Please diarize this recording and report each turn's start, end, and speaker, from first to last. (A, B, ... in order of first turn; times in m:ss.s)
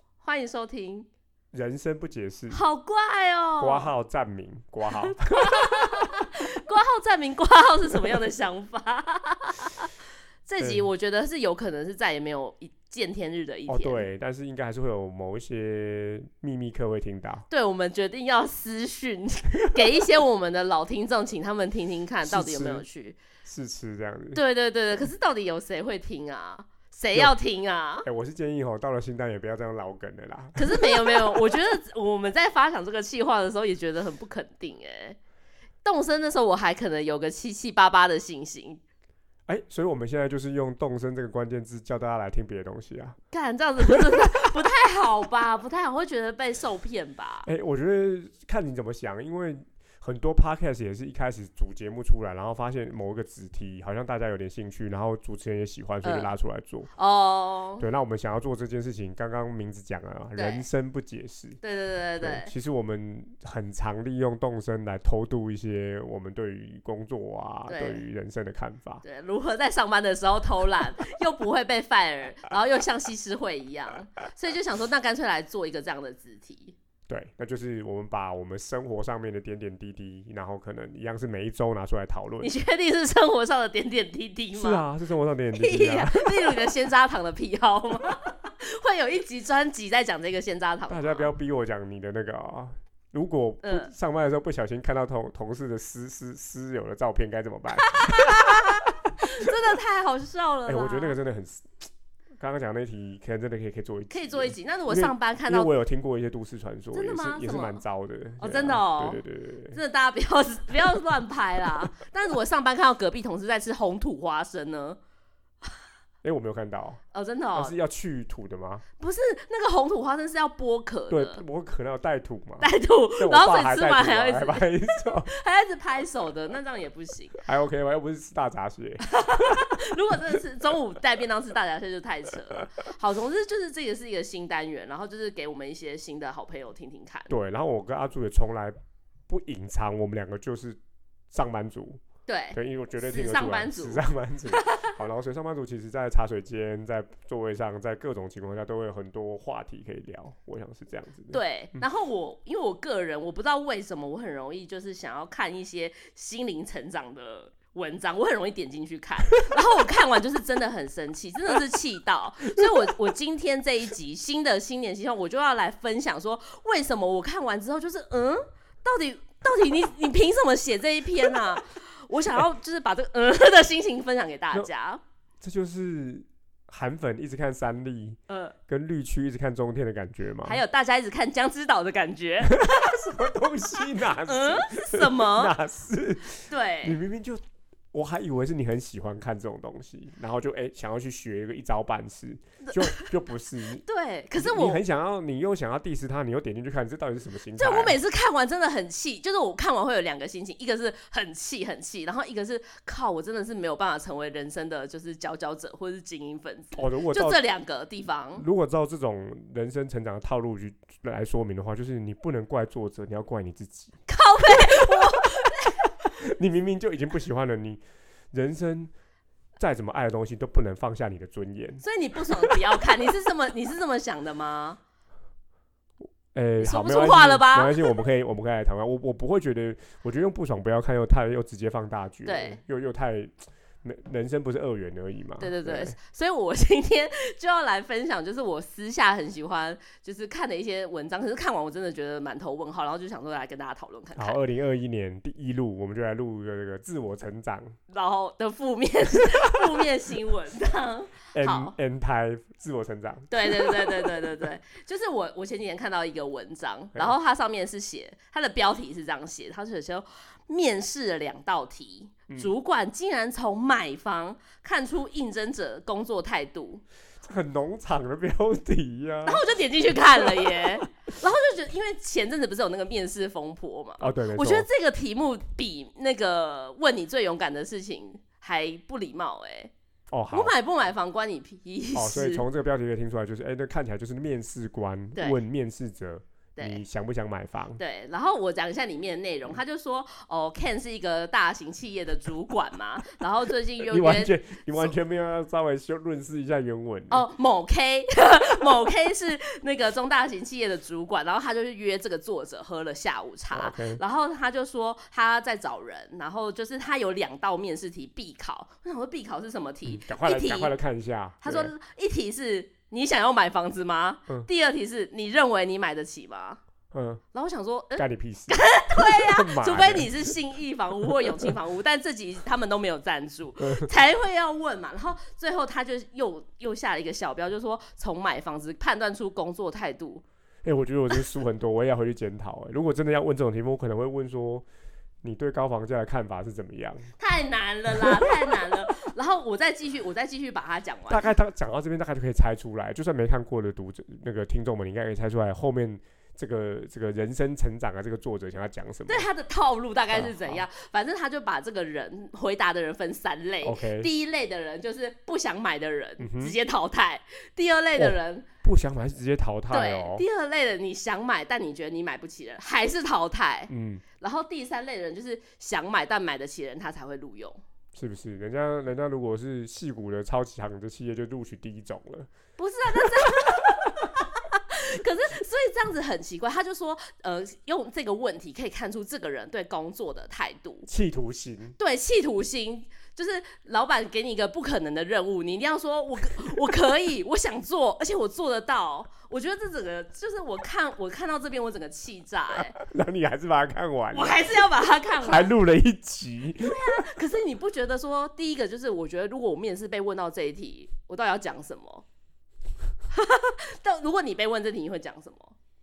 0:00.2-0:01.1 A
0:01.5-0:02.6 B
0:02.5-0:03.9 A
0:03.6-0:06.3 B
0:04.9-0:09.9 A
0:10.4-0:14.0 A
0:10.6-0:10.8 B
0:13.7-0:17.5 B
0:17.5-0:23.2 A
0:22.2-0:22.8 B
0:23.4-0:24.4 B
0:24.3-0:28.1 A
0:28.0-0:31.6 B
0:30.6-0:35.2 A
0:35.8-0:38.8 A
0:39.5-0:43.2 B
0:43.3-0:47.5 A
0:43.8-0:44.5 B
0:47.4-0:56.9 B
0:56.0-0:56.3 A
0:57.0-0:57.8 A
0:57.8-1:01.6 B
1:00.3-1:00.7 A
1:01.6-1:02.5 A
1:02.2-1:09.0 B
1:07.7-1:08.0 A
1:09.0-1:16.8 A
1:17.1-1:22.5 B
1:22.4-1:24.8 A
1:24.5-1:26.7 B
1:25.5-1:31.3 A
1:30.9-1:39.5 B
1:33.6-1:33.9 A
1:37.9-1:41.2 A
1:40.6-1:49.8 B
1:44.1-1:45.7 A
1:46.9-1:47.8 A
1:48.4-1:55.0 A
1:56.2-1:57.0 B
1:57.1-1:57.7 A
1:57.5-1:58.8 B
1:59.0-2:01.4 A
2:01.1-2:05.3 B
2:02.6-2:07.4 A
2:07.4-2:10.2 B
2:09.1-2:17.3 A
2:17.3-2:18.8 B
2:19.3-2:20.8 B
2:21.3-2:22.0 B
2:22.3-2:24.9 A
2:22.5-2:31.8 B
2:31.3-2:55.0 A
2:55.4-3:00.6 B
2:58.3-2:58.6 A
3:00.4-3:02.9 A
3:02.4-3:07.4 B
3:03.8-3:05.5 A
3:06.5-3:07.0 A
3:07.9-3:13.8 B
3:12.6-3:13.0 A
3:13.8-3:14.8 A
3:14.4-3:18.0 B
3:17.5-3:28.4 A
3:26.8-3:27.4 B
3:28.4-3:34.0 B
3:34.1-3:35.8 A
3:36.2-3:37.8 B
3:38.3-3:38.9 B
3:39.6-3:42.8 B
3:41.8-3:44.8 A
3:46.3-3:56.0 B
3:46.6-3:48.0 A
3:52.2-3:52.6 A
3:55.4-4:04.4 A
4:04.1-4:07.8 B
4:07.9-4:11.7 A
4:11.3-4:14.4 B
4:13.3-4:26.8 A
4:27.2-4:30.7 B
4:29.2-4:39.7 A
4:34.0-4:34.6 B
4:40.1-4:40.5 B
4:40.3-4:42.4 A
4:41.9-4:47.8 B
4:46.6-4:46.8 A
4:47.8-4:54.9 A
4:53.8-4:57.3 B
4:57.1-5:10.7 A
5:03.5-5:04.0 B
5:09.8-5:11.7 B
5:11.4-5:16.6 A
5:16.9-5:17.2 B
5:17.3-5:30.2 A
5:18.0-5:20.3 B
5:23.6-5:23.9 B
5:30.6-5:34.6 B
5:35.2-5:37.1 B
5:37.2-5:41.2 A
5:38.0-5:38.5 B
5:41.1-5:49.3 B
5:49.1-5:58.5 A
5:50.1-5:50.6 B
5:53.6-5:54.1 B
5:56.2-5:56.6 B
5:57.9-6:00.2 B
5:59.7-6:07.6 A
6:03.7-6:04.0 B
6:07.9-6:12.3 B
6:12.6-6:20.9 A
6:12.9-6:14.1 B
6:20.9-6:21.8 B
6:21.8-6:32.7 A
6:32.7-6:34.6 B
6:34.1-6:35.5 A
6:35.2-6:37.0 B
6:36.6-6:42.0 A
6:43.1-6:45.5 A